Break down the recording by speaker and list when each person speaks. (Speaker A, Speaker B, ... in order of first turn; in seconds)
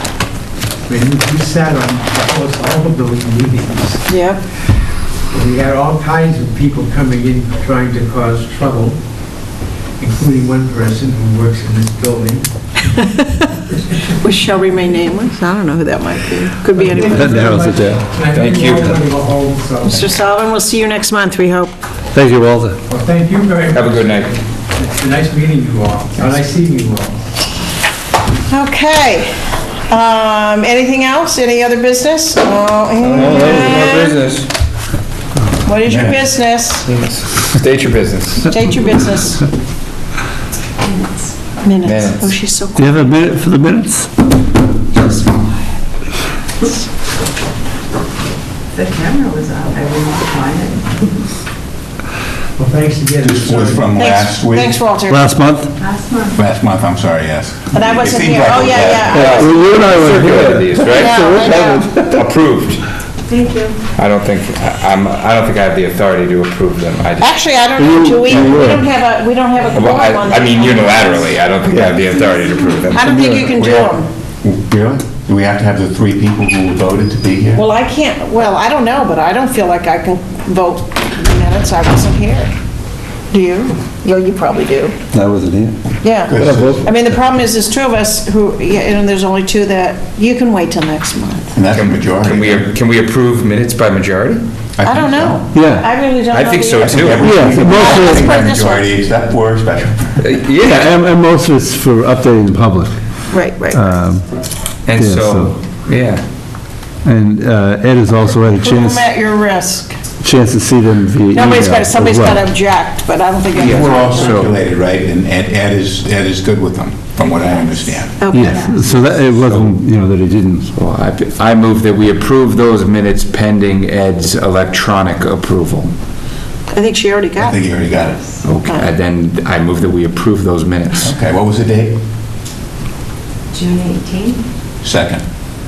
Speaker A: 0.9-4.1, 5.3-9.0, 10.0-12.5, 16.7-20.1, 22.9-27.2, 52.6-53.9
Speaker B: 4.1-4.4, 14.2-17.5, 19.9-21.7, 28.5-34.2, 35.6-36.9, 38.5-39.5, 41.6-43.2, 45.0-45.5, 54.0-55.3, 57.7-59.6, 60.9-62.0, 67.2-71.3, 72.9-74.1, 77.6-82.5, 83.3-85.0, 86.0-91.5, 94.8-98.9, 103.3-103.9, 108.5-110.0, 111.3-114.5, 118.2-118.7, 126.7-127.6
Speaker C: 17.0-18.1, 22.1-22.8, 33.1-34.0, 42.8-44.1, 55.1-55.7, 59.1-62.2, 67.8-68.9, 71.7-72.1, 72.9-73.5, 85.1-85.8, 86.3-86.8, 95.5-95.9, 97.1-98.4, 100.6-103.0, 103.6-104.2, 104.9-105.6, 107.0-109.1, 110.2-112.5, 118.3-120.7
Speaker D: 18.3-19.0, 23.7-24.3, 33.0-34.5, 36.9-38.6, 41.8-42.4, 59.1-62.9, 64.0-67.7, 68.2-68.8, 69.7-73.9, 91.7-94.4, 96.3-97.7, 100.2-100.9, 104.8-106.2, 113.5-114.6, 119.4-119.7, 120.7-125.9, 128.4-131.2
Speaker E: 35.9-36.3, 53.2-54.8, 56.3-59.3, 74.4-77.7, 86.3-86.9, 91.5-92.7, 94.8-95.4, 96.8-100.2, 113.6-118.2, 127.4-128.2, 131.0-132.0, 134.8-135.2
Speaker F: 40.9-41.1, 48.8-51.0, 55.8-56.3, 63.3-63.8, 118.5-118.8, 133.5-134.4